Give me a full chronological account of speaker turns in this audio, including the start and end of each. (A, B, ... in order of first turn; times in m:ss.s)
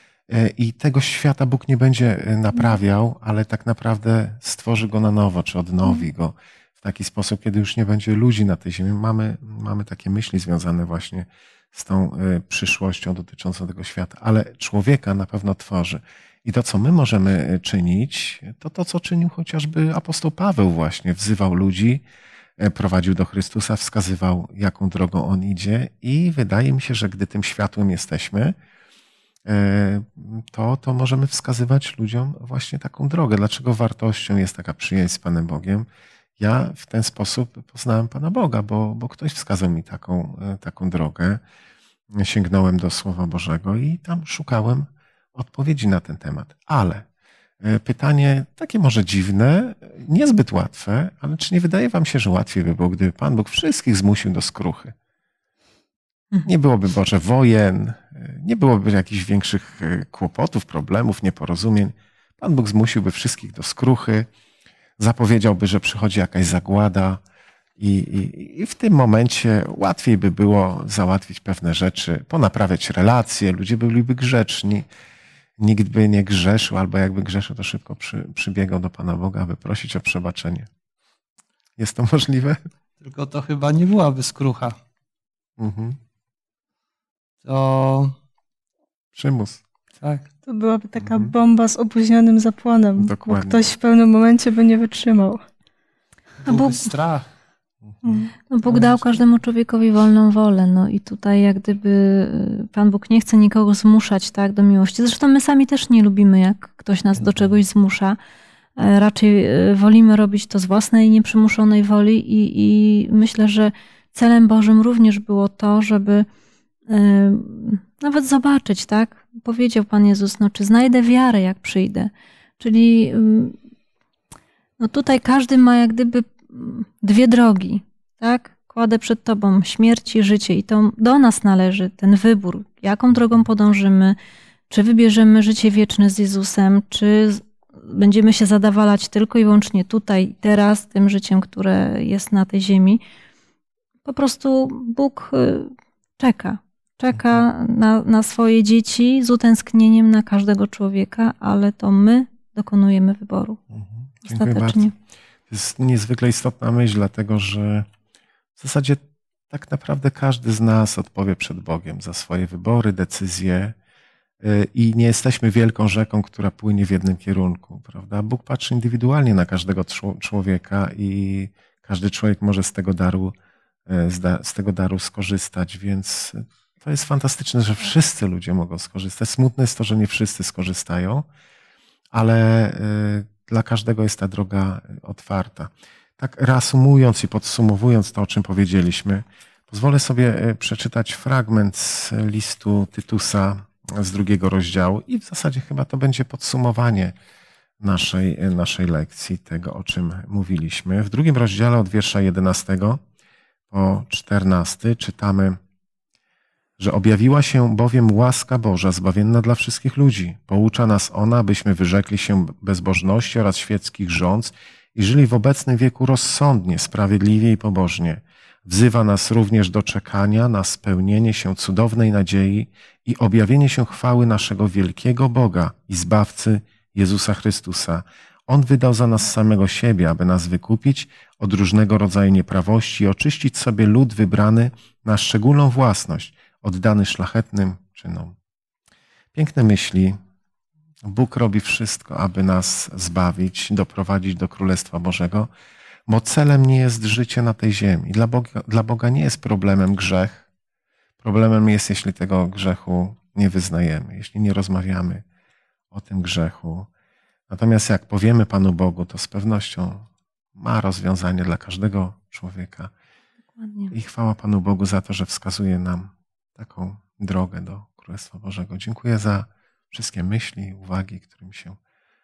0:00.3-0:22.0 A
0:22.6-0:28.5 A
0:29.4-0:35.8 A
0:36.4-0:41.4 A
0:42.1-0:47.0 A
0:47.6-0:54.9 A
0:56.4-1:04.3 A
1:05.0-1:07.2 A
1:07.8-1:14.8 A
1:15.6-1:20.7 A
1:21.8-1:22.6 A
1:23.0-1:24.7 B
1:25.6-1:26.0 A
1:27.4-1:28.1 B
1:29.1-1:29.6 A
1:30.0-1:30.3 B
1:30.4-1:35.4 C
1:31.0-1:31.3 A
1:33.0-1:33.6 A
1:36.4-1:37.3 B
1:36.4-1:36.9 D
1:37.9-1:38.3 A
1:38.0-1:38.3 C
1:38.5-1:48.2 D
1:47.2-1:47.5 A
1:48.8-1:56.2 D
1:56.9-2:03.6 D
2:04.8-2:14.2 D
2:14.7-2:23.0 D
2:24.0-2:33.6 D
2:33.7-2:34.8 A
2:34.2-2:34.9 D
2:35.5-2:37.9 A
2:38.6-2:43.7 A
2:44.4-2:53.3 A
2:53.9-3:01.2 A
3:02.1-3:17.1 A
3:17.8-3:23.0 A
3:23.7-3:25.6 A
3:26.8-3:58.4 A
3:59.3-4:00.2 A
4:01.0-4:05.5 A
4:06.1-4:10.4 A
4:11.2-4:15.2 A
4:15.9-4:16.9 A
4:17.5-4:22.9 A
4:23.6-4:23.9 D
4:23.9-4:31.8 A